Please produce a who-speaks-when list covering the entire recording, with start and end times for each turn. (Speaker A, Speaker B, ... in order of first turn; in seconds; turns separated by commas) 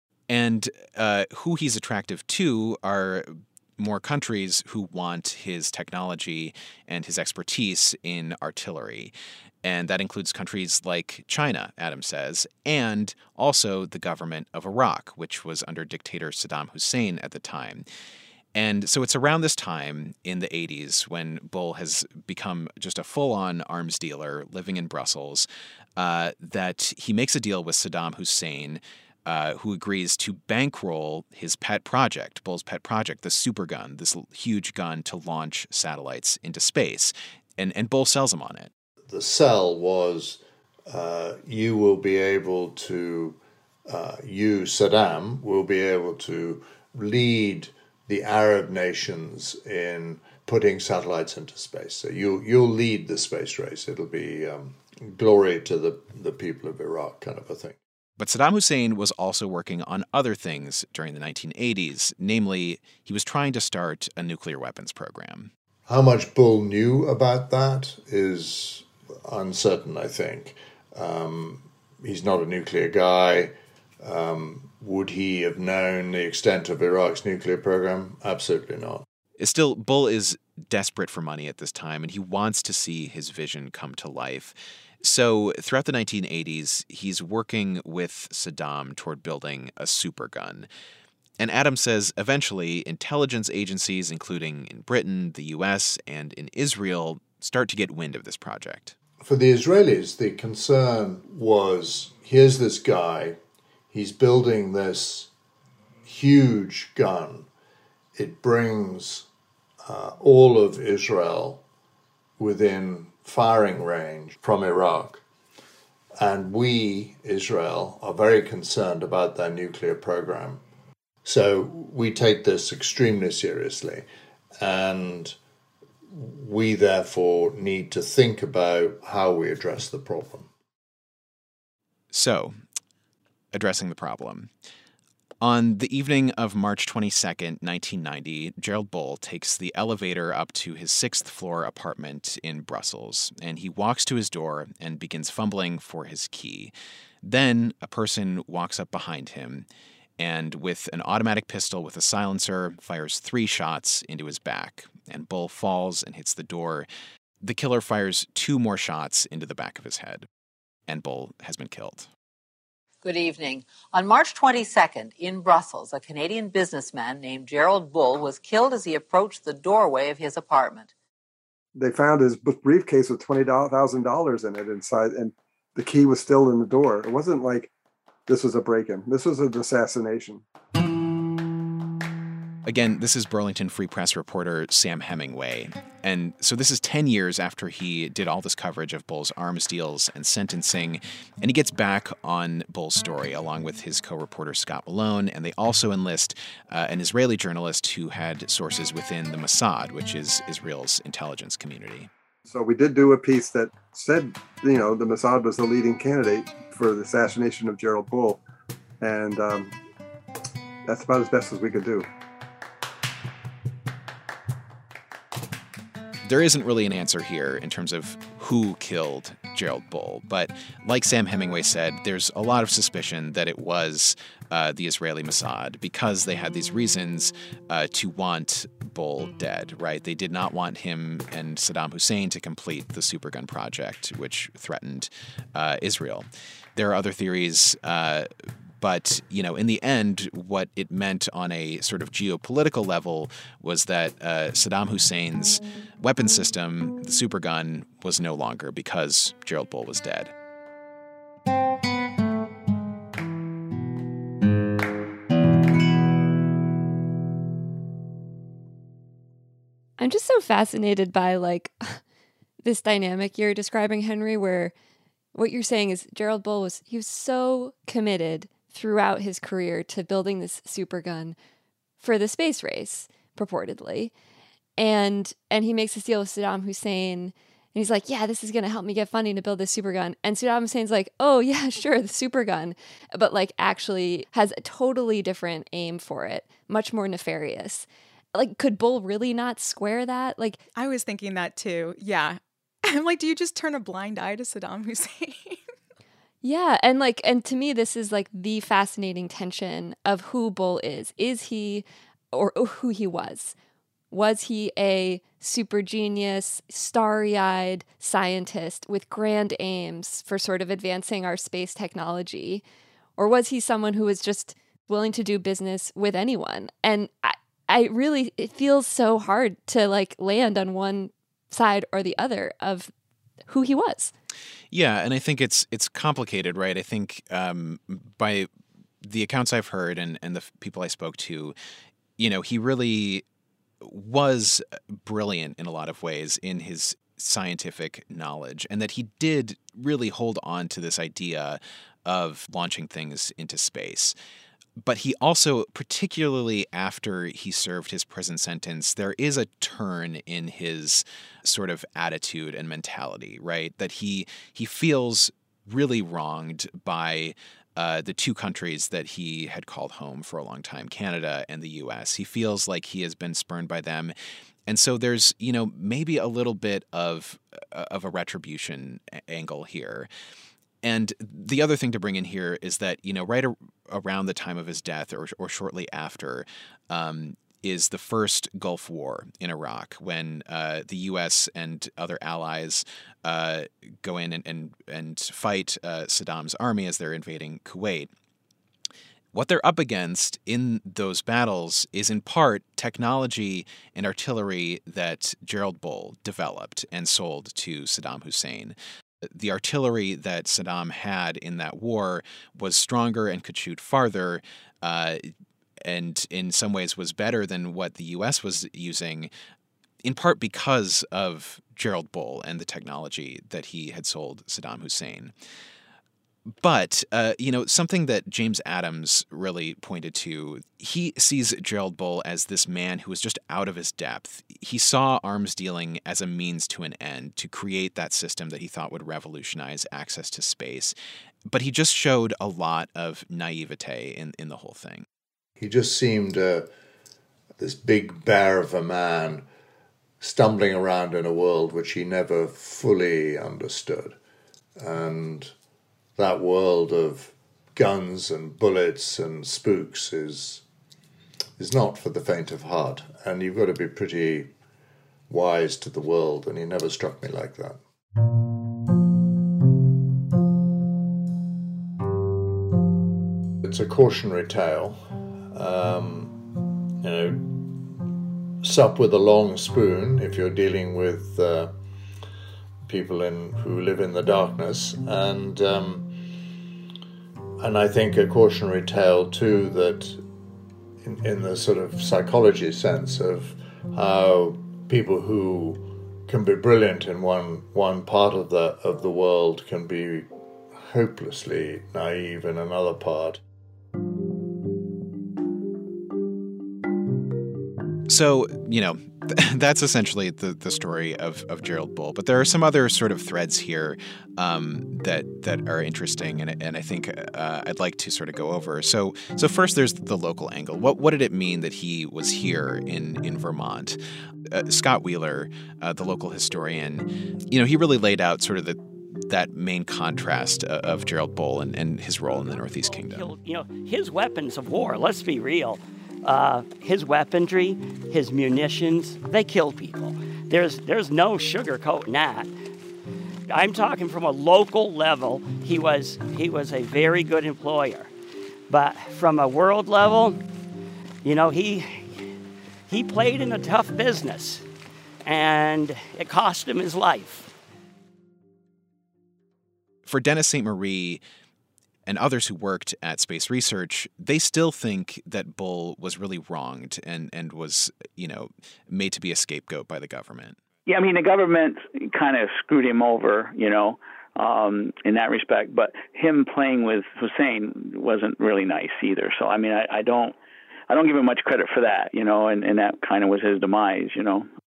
Speaker A: 0.3-17.9, Speaker A: 18.5-38.7, Speaker B: 39.1-57.8, Speaker A: 58.2-65.5, Speaker B: 65.9-79.0, Speaker A: 79.4-90.7, Speaker A: 91.4-99.0, Speaker B: 99.2-103.4, Speaker B: 103.9-105.3, Speaker B: 106.0-107.5, Speaker B: 108.2-109.3, Speaker B: 109.8-111.6, Speaker B: 112.4-115.2, Speaker B: 116.2-120.6, Speaker B: 121.2-124.1, Speaker B: 124.6-125.4, Speaker B: 126.1-130.5, Speaker A: 132.1-132.5, Speaker A: 133.5-134.5, Speaker A: 135.4-149.7, Speaker A: 150.2-156.9, Speaker A: 157.4-160.3, Speaker A: 160.9-162.1, Speaker C: 163.0-170.9, Speaker D: 171.8-177.7, Speaker D: 178.3-180.4, Speaker A: 182.7-202.1, Speaker D: 202.5-208.4, Speaker D: 209.0-209.8, Speaker D: 210.9-212.1, Speaker A: 216.2-238.3, Speaker A: 238.8-250.3, Speaker E: 260.0-262.0, Speaker E: 262.6-264.7, Speaker E: 265.3-271.4, Speaker E: 272.0-274.1, Speaker E: 274.8-290.6, Speaker F: 290.8-295.6, Speaker E: 296.4-303.6, Speaker E: 304.1-312.6, Speaker E: 313.2-322.9, Speaker E: 323.5-324.1, Speaker A: 324.7-328.5, Speaker A: 329.0-331.6, Speaker A: 332.2-333.2, Speaker A: 333.8-344.1, Speaker A: 344.8-364.1, Speaker A: 364.7-370.1, Speaker A: 370.8-388.1, Speaker A: 389.3-398.8, Speaker A: 399.3-405.3, Speaker A: 405.8-409.3, Speaker A: 410.0-415.3, Speaker A: 416.6-430.9, Speaker A: 431.5-435.1, Speaker B: 435.6-436.7, Speaker B: 437.6-439.5, Speaker B: 440.2-444.2, Speaker B: 444.8-445.5, Speaker B: 446.2-450.6, Speaker B: 451.6-454.5, Speaker B: 455.3-457.8, Speaker B: 463.6-465.0, Speaker B: 465.5-466.4, Speaker B: 467.0-467.7, Speaker B: 468.6-471.7, Speaker B: 472.9-476.1, Speaker B: 477.6-480.2, Speaker B: 481.0-493.4, Speaker A: 498.1-514.0, Speaker A: 514.5-523.3, Speaker G: 522.4-532.5, Speaker G: 533.5-538.1, Speaker G: 538.7-540.4, Speaker G: 541.2-542.3, Speaker G: 542.9-544.6, Speaker G: 545.3-547.5, Speaker A: 550.1-551.2, Speaker A: 552.1-560.6, Speaker H: 560.9-570.4, Speaker H: 570.9-574.5